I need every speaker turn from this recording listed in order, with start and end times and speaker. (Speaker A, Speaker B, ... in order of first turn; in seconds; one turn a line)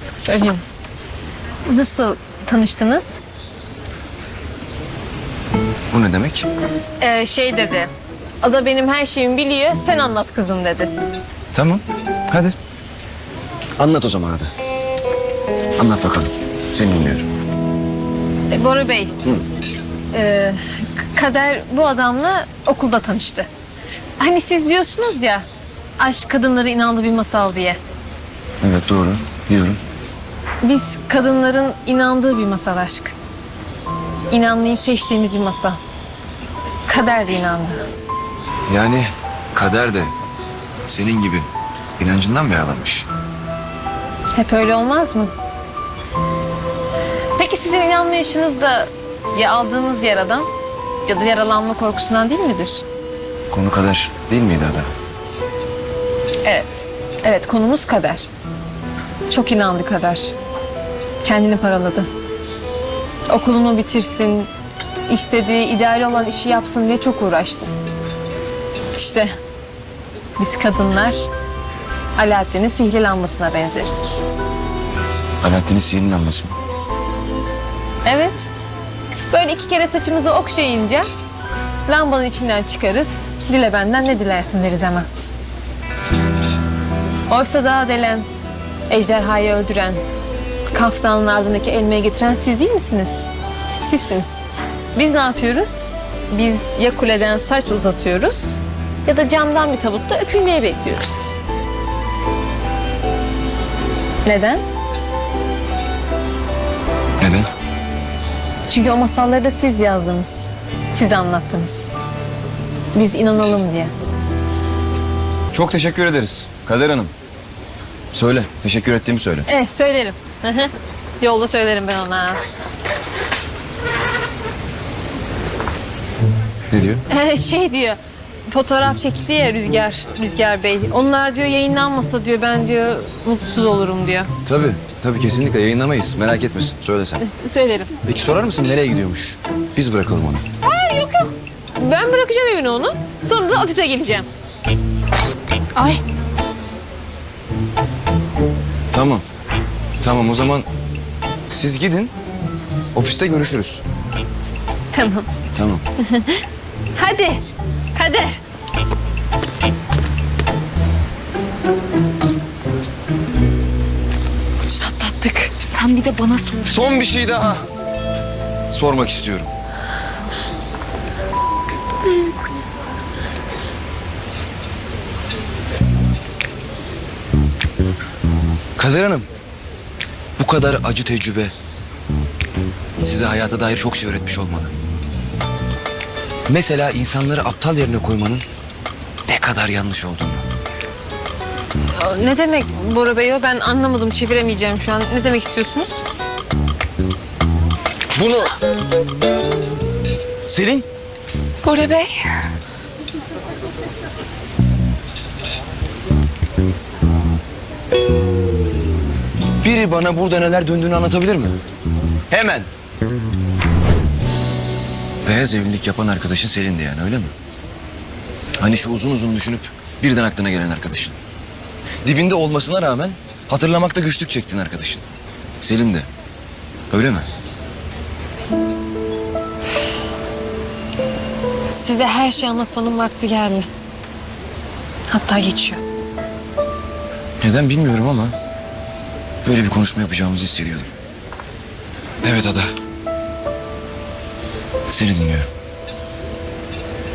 Speaker A: 0.2-0.6
Speaker A: 1.7-3.2
Speaker B: 5.9-6.5
Speaker A: 7.0-7.9
Speaker A: 8.4-10.9
Speaker B: 11.5-12.5
Speaker B: 13.8-14.5
Speaker B: 15.8-17.3
Speaker A: 18.5-19.1
Speaker A: 20.1-23.5
Speaker A: 24.2-25.4
Speaker A: 26.0-27.8
Speaker B: 28.6-29.8
Speaker A: 30.6-33.1
Speaker A: 34.3-35.8
Speaker A: 36.9-37.8
Speaker B: 38.7-40.1
Speaker B: 40.9-41.5
Speaker B: 42.0-43.1
Speaker A: 44.4-45.3
Speaker A: 47.4-50.5
Speaker A: 51.0-52.8
Speaker B: 53.5-54.9
Speaker A: 56.4-58.3
Speaker A: 59.3-60.3
Speaker A: 61.2-62.1
Speaker A: 63.3-64.5
Speaker A: 65.1-67.7
Speaker A: 68.9-69.3
Speaker A: 70.4-71.2
Speaker A: 72.2-74.2
Speaker B: 75.4-76.5
Speaker A: 78.0-78.5
Speaker A: 79.3-81.0
Speaker A: 81.9-85.1
Speaker A: 87.3-88.2
Speaker A: 88.9-90.0
Speaker A: 90.7-94.4
Speaker A: 94.9-101.3
Speaker A: 104.2-104.6
Speaker B: 107.2-107.5
Speaker A: 108.7-111.9
Speaker A: 112.9-113.9
Speaker B: 115.5-117.1
Speaker B: 118.1-119.5
Speaker A: 119.5-122.4
Speaker B: 126.7-127.0
Speaker A: 127.1-128.0
Speaker A: 128.5-134.3
Speaker B: 134.4-137.2
Speaker A: 137.2-137.9
Speaker B: 138.0-140.4
Speaker A: 140.6-144.3
Speaker C: 145.8-146.0
Speaker B: 148.9-149.2
Speaker B: 150.0-150.7
Speaker B: 151.5-152.1
Speaker B: 152.9-153.8
Speaker A: 154.9-155.3
Speaker B: 155.5-155.8
Speaker A: 156.0-156.4
Speaker A: 157.0-157.4
Speaker A: 157.9-158.3
Speaker A: 164.7-165.5
Speaker C: 165.6-166.8
Speaker B: 166.6-167.7
Speaker B: 168.7-169.5
Speaker B: 178.8-179.3
Speaker B: 180.4-181.5
Speaker B: 183.0-184.7
Speaker B: 186.5-188.4
Speaker B: 189.3-190.4
Speaker A: 191.9-196.0
Speaker B: 198.1-198.5
Speaker B: 200.4-200.8
Speaker C: 201.6-202.1
Speaker B: 209.6-211.6
Speaker B: 212.3-212.7
Speaker B: 215.2-217.3
Speaker B: 218.6-221.2
Speaker B: 222.0-225.0
Speaker B: 225.6-226.1
Speaker B: 226.9-227.3
Speaker A: 231.7-233.7
Speaker A: 235.1-235.8
Speaker B: 237.4-238.3
Speaker B: 239.4-240.9
Speaker B: 242.2-242.7
Speaker B: 244.9-245.5